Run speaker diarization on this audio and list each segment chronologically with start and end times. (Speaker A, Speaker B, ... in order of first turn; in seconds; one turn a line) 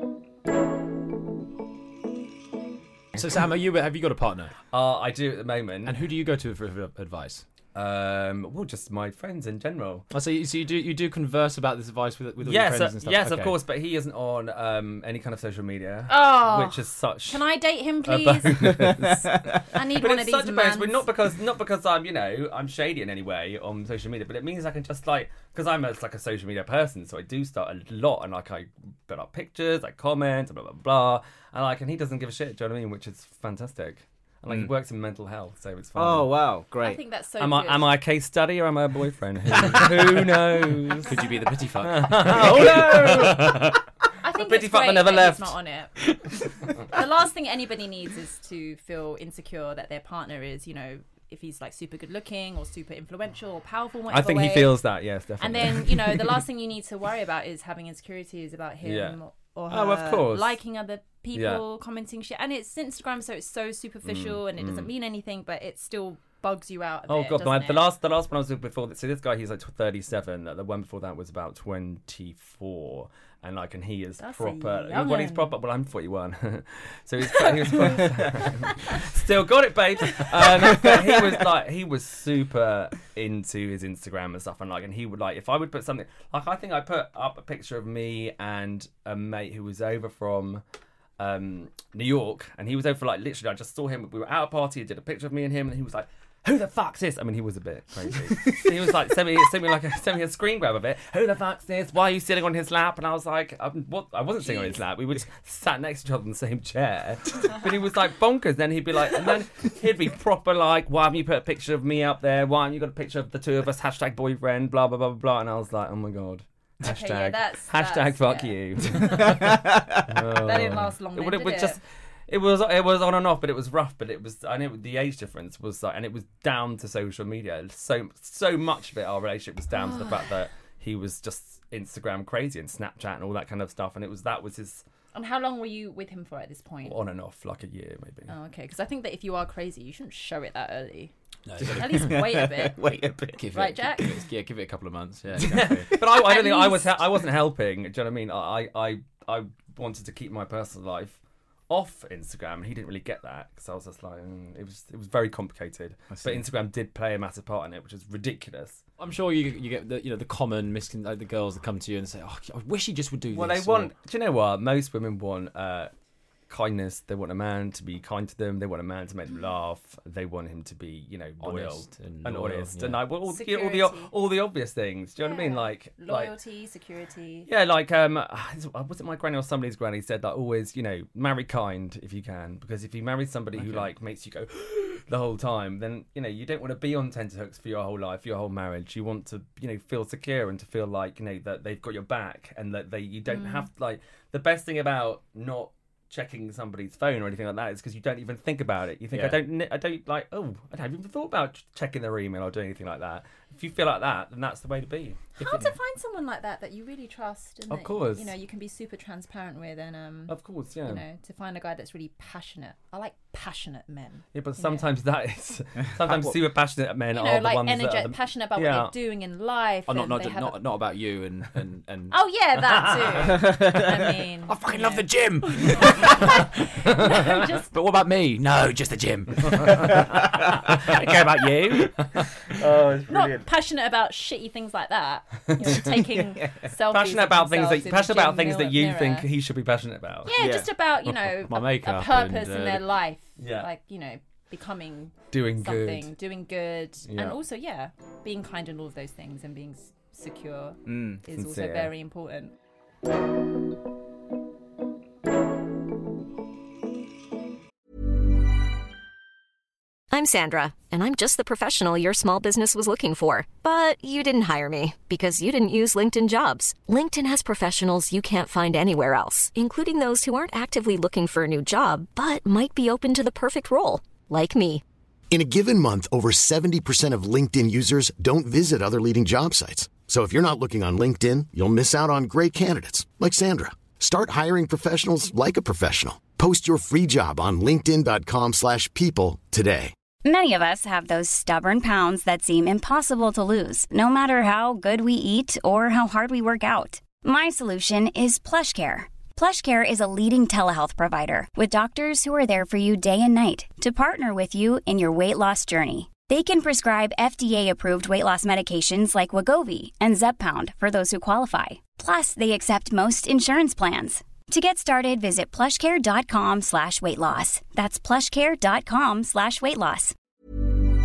Speaker A: 3.1-4.5
Speaker B: 4.7-6.0
Speaker A: 5.8-7.5
Speaker B: 7.8-10.1
Speaker A: 10.1-13.6
Speaker B: 12.4-17.5
Speaker C: 16.1-18.7
Speaker B: 18.0-19.3
Speaker D: 18.6-19.6
Speaker C: 19.7-21.1
Speaker B: 19.9-36.3
Speaker D: 36.0-37.0
Speaker C: 36.8-37.9
Speaker B: 37.4-41.1
Speaker A: 39.6-39.9
Speaker A: 41.0-43.4
Speaker B: 41.8-43.8
Speaker D: 42.4-43.3
Speaker C: 44.2-45.9
Speaker B: 44.3-45.6
Speaker C: 46.9-54.8
Speaker B: 54.1-56.5
Speaker C: 55.4-67.8
Speaker B: 58.8-59.2
Speaker B: 59.7-60.5
Speaker B: 61.3-61.6
Speaker B: 64.0-64.9
Speaker B: 67.1-90.6
Speaker C: 74.2-75.5
Speaker C: 77.2-79.0
Speaker D: 80.6-81.0
Speaker B: 91.2-134.8
Speaker C: 104.4-104.8
Speaker C: 116.8-119.3
Speaker D: 119.0-120.0
Speaker C: 120.4-121.8
Speaker C: 129.7-130.3
Speaker C: 135.1-137.0
Speaker B: 136.8-138.3
Speaker C: 138.3-141.1
Speaker A: 141.5-142.3
Speaker D: 141.6-143.4
Speaker C: 141.7-142.8
Speaker A: 143.4-145.9
Speaker C: 143.5-144.1
Speaker B: 145.4-151.2
Speaker C: 146.1-147.0
Speaker B: 151.7-158.8
Speaker D: 156.1-156.4
Speaker A: 159.0-163.9
Speaker B: 163.3-165.9
Speaker B: 166.5-176.3
Speaker A: 171.4-173.0
Speaker C: 173.3-174.1
Speaker C: 175.2-177.5
Speaker B: 177.5-205.4
Speaker A: 183.6-183.9
Speaker C: 193.3-193.7
Speaker D: 199.1-199.4
Speaker C: 205.4-210.3
Speaker B: 207.7-208.3
Speaker B: 210.3-211.0
Speaker C: 210.8-214.9
Speaker B: 214.3-218.9
Speaker D: 216.0-216.3
Speaker C: 217.1-220.6
Speaker A: 219.9-222.2
Speaker C: 222.1-227.7
Speaker B: 222.7-223.3
Speaker D: 223.4-223.9
Speaker A: 224.5-226.5
Speaker A: 227.7-230.1
Speaker B: 229.6-230.1
Speaker B: 230.6-233.0
Speaker A: 231.0-231.9
Speaker D: 232.6-233.5
Speaker C: 233.1-239.3
Speaker B: 235.5-235.8
Speaker D: 235.7-236.7
Speaker B: 236.9-240.3
Speaker C: 240.2-252.5
Speaker D: 240.3-240.7
Speaker A: 241.3-242.9
Speaker B: 243.4-243.7
Speaker B: 245.3-246.1
Speaker B: 247.1-247.4
Speaker D: 250.9-251.2
Speaker B: 251.3-251.9
Speaker E: 260.1-274.8
Speaker F: 275.3-289.9
Speaker G: 290.2-320.1